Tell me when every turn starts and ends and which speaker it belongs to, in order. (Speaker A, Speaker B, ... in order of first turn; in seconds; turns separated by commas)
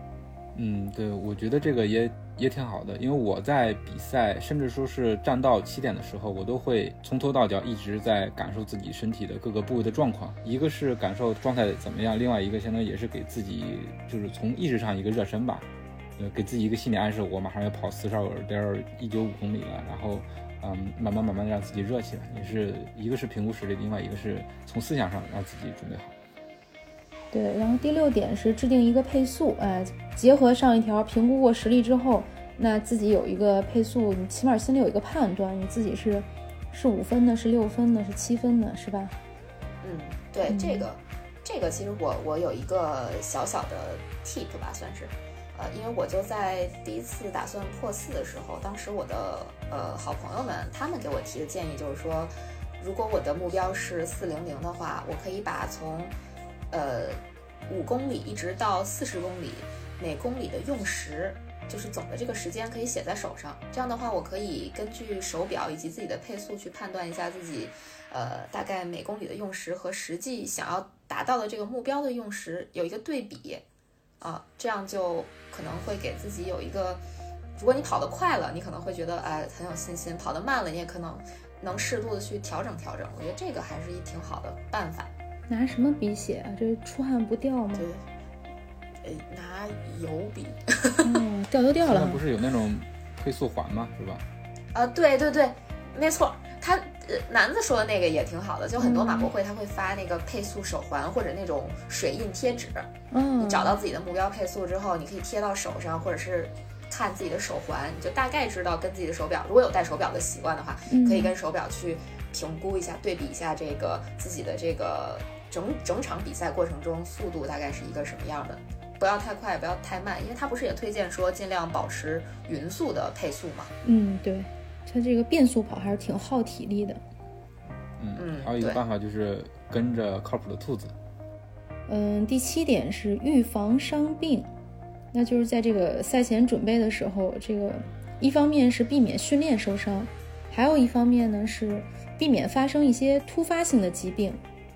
Speaker A: 0.5-15.7, Speaker A: 16.2-26.1, Speaker B: 27.3-39.1, Speaker C: 39.8-56.1, Speaker B: 40.5-40.9, Speaker C: 56.7-73.6, Speaker C: 74.2-77.0, Speaker C: 77.6-85.1, Speaker B: 85.5-87.8, Speaker C: 87.8-88.0, Speaker C: 89.0-91.1, Speaker B: 91.0-92.2, Speaker A: 91.8-94.2, Speaker C: 94.7-102.9, Speaker B: 98.8-99.3, Speaker B: 103.1-103.8, Speaker C: 103.4-123.7, Speaker B: 110.9-111.3, Speaker B: 123.8-127.0, Speaker A: 128.0-130.9, Speaker C: 128.2-128.8, Speaker B: 131.9-134.5, Speaker B: 135.1-144.4